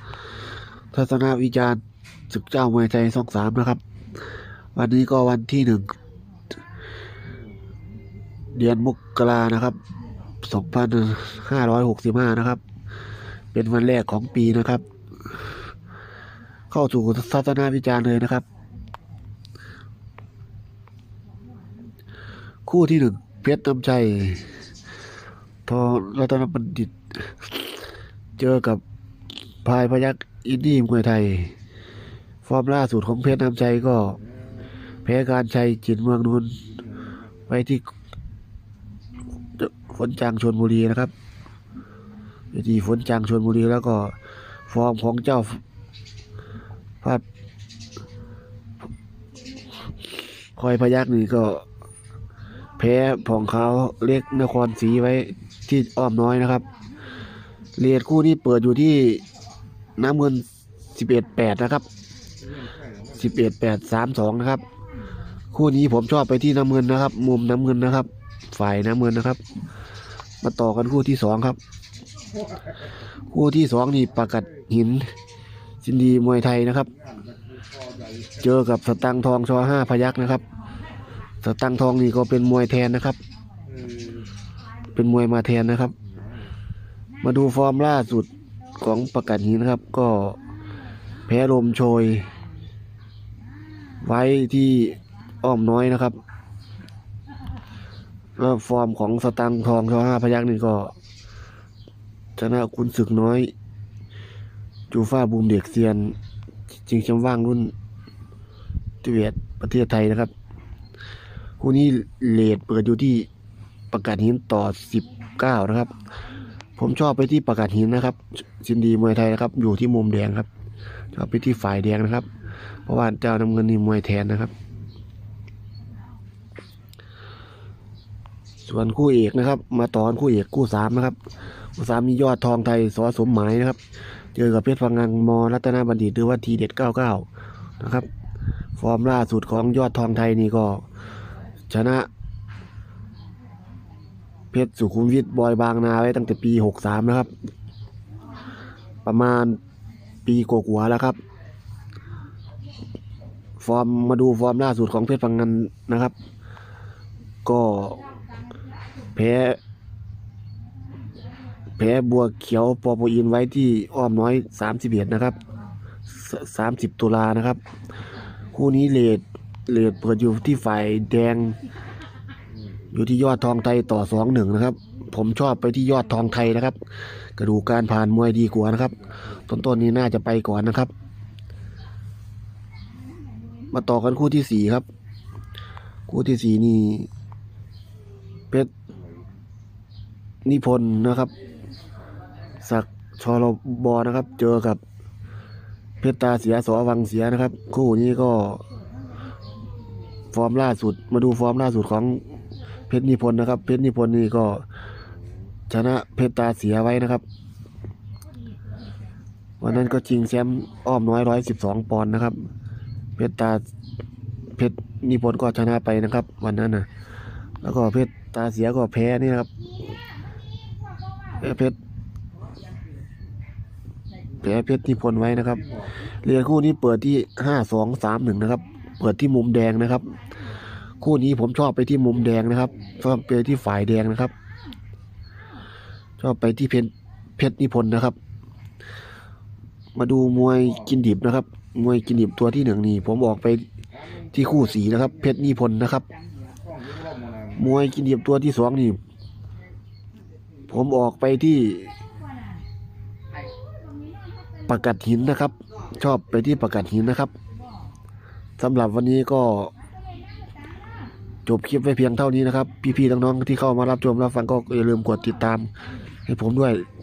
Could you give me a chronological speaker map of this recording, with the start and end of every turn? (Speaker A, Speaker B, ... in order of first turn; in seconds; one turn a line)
Speaker A: 0.9-3.8
Speaker A: 4.7-5.9
Speaker A: 8.5-9.8
Speaker A: 10.4-12.6
Speaker A: 13.5-14.8
Speaker A: 16.7-18.4
Speaker A: 22.6-24.5
Speaker A: 25.6-27.7
Speaker A: 28.4-28.8
Speaker A: 29.6-31.5
Speaker A: 32.4-34.2
Speaker A: 35.0-36.6
Speaker A: 37.5-37.9
Speaker A: 39.6-41.1
Speaker A: 42.5-44.1
Speaker A: 44.7-45.6
Speaker A: 50.5-51.6
Speaker A: 52.8-56.6
Speaker A: 57.8-59.2
Speaker A: 60.0-61.8
Speaker A: 63.1-64.6
Speaker A: 65.5-69.4
Speaker A: 70.4-71.6
Speaker A: 73.3-75.1
Speaker A: 75.8-76.9
Speaker A: 78.4-80.4
Speaker A: 81.4-83.2
Speaker A: 84.9-85.9
Speaker A: 87.2-90.4
Speaker A: 91.3-92.3
Speaker A: 94.0-96.2
Speaker A: 98.4-100.9
Speaker A: 102.4-103.5
Speaker A: 104.9-106.2
Speaker A: 106.8-107.7
Speaker A: 109.0-110.3
Speaker A: 111.6-113.3
Speaker A: 113.9-115.9
Speaker A: 116.8-120.5
Speaker A: 121.1-122.3
Speaker A: 122.8-124.5
Speaker A: 128.6-131.2
Speaker A: 131.8-133.8
Speaker A: 134.3-137.3
Speaker A: 137.8-138.1
Speaker A: 138.8-140.8
Speaker A: 141.7-142.1
Speaker A: 144.5-147.3
Speaker A: 149.0-149.6
Speaker A: 150.2-151.2
Speaker A: 153.6-156.1
Speaker A: 157.4-158.0
Speaker A: 159.1-159.6
Speaker A: 161.8-165.4
Speaker A: 166.1-167.6
Speaker A: 168.5-171.6
Speaker A: 172.9-176.8
Speaker A: 177.4-179.0
Speaker A: 179.5-180.9
Speaker A: 183.7-184.8
Speaker A: 186.1-187.1
Speaker A: 190.4-191.3
Speaker A: 192.6-194.8
Speaker A: 196.0-198.6
Speaker A: 200.3-202.2
Speaker A: 202.9-204.6
Speaker A: 205.7-207.2
Speaker A: 209.6-212.4
Speaker A: 213.2-213.6
Speaker A: 214.6-216.9
Speaker A: 217.6-219.5
Speaker A: 221.4-221.8
Speaker A: 224.4-225.7
Speaker A: 226.2-230.2
Speaker A: 231.0-234.3
Speaker A: 236.2-238.2
Speaker A: 239.9-243.6
Speaker A: 244.3-246.1
Speaker A: 247.6-249.0
Speaker A: 250.7-251.9
Speaker A: 254.7-257.3
Speaker A: 258.6-259.7
Speaker A: 261.4-265.7
Speaker A: 266.3-266.8